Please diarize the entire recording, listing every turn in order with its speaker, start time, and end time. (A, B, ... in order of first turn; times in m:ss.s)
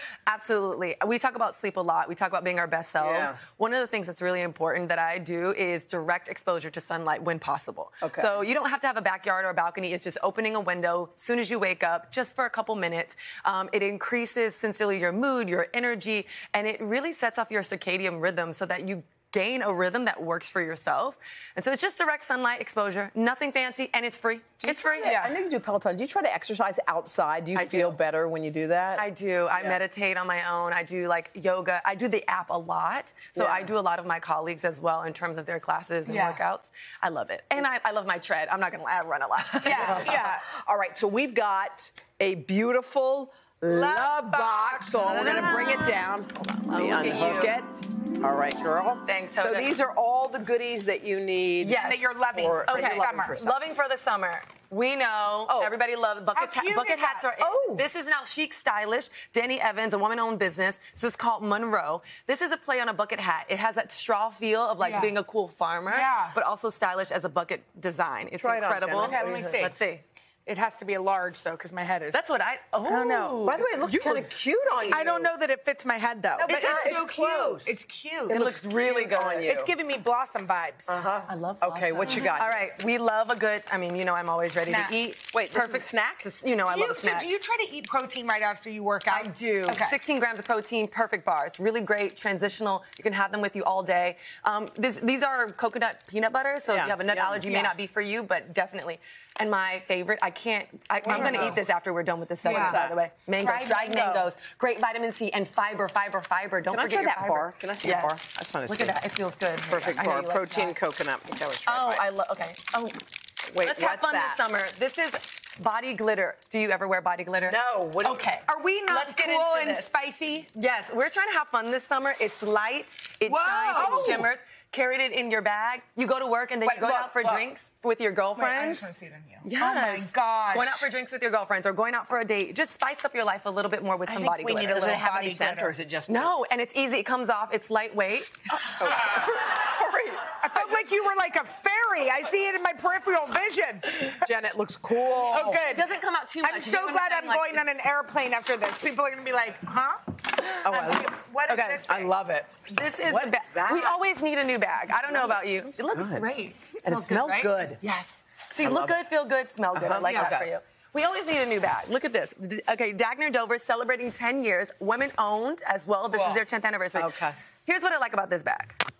0:00.3-0:25.4 A
0:03.0-0:03.4 B
0:08.0-0:08.3 B
0:24.6-0:29.8 B
0:25.0-0:25.3 C
0:27.5-0:28.0 A
0:29.0-0:40.3 A
0:33.4-0:33.7 B
0:36.0-0:36.4 C
0:39.6-0:40.4 C
0:39.7-0:51.8 B
0:43.7-0:46.0 C
0:45.0-0:45.8 A
0:46.6-0:47.6 A
0:49.0-0:49.7 A
0:51.6-0:52.1 A
0:51.7-0:53.4 C
0:52.3-0:53.6 B
0:52.7-1:10.0 A
0:55.5-0:55.7 B
0:56.3-0:57.3 C
0:57.4-0:57.8 B
1:04.8-1:05.1 C
1:05.9-1:06.4 C
1:08.4-1:09.5 B
1:09.0-1:09.8 C
1:10.4-1:12.2 C
1:12.1-1:13.6 A
1:12.8-1:14.2 C
1:13.4-1:15.3 B
1:14.8-1:18.4 C
1:16.4-1:17.8 B
1:16.4-1:17.5 A
1:18.3-1:19.7 B
1:18.3-1:19.5 A
1:19.4-1:21.0 C
1:20.9-1:22.6 B
1:21.3-1:27.3 A
1:22.0-1:22.4 C
1:24.7-1:25.0 C
1:25.3-1:26.2 B
1:26.6-1:30.0 C
1:29.1-1:50.8 A
1:36.7-1:37.4 B
1:37.4-1:37.7 C
1:41.0-1:41.6 C
1:41.1-1:41.6 B
1:42.4-1:42.8 C
1:42.4-1:43.0 B
1:43.4-1:44.3 C
1:46.7-1:49.0 B
1:49.7-1:52.1 B
1:51.6-1:53.0 A
1:53.4-1:54.4 B
1:53.6-1:59.9 A
1:57.5-1:58.3 B
1:58.4-2:00.5 C
2:00.5-2:08.9 A
2:03.2-2:04.3 C
2:03.7-2:04.3 B
2:06.6-2:07.4 B
2:08.3-2:10.9 C
2:09.4-2:15.0 A
2:14.1-2:15.7 C
2:14.5-2:16.3 B
2:16.1-2:18.9 A
2:18.7-2:20.3 B
2:20.4-2:24.3 C
2:24.1-2:25.6 B
2:25.0-2:32.1 C
2:25.3-2:27.8 A
2:30.6-2:31.1 B
2:31.5-2:31.9 A
2:31.9-2:34.0 B
2:32.6-2:48.8 A
2:34.9-2:36.2 B
2:36.8-2:37.8 B
2:38.6-2:39.0 B
2:39.7-2:40.5 B
2:46.1-2:46.4 C
2:46.9-2:47.4 B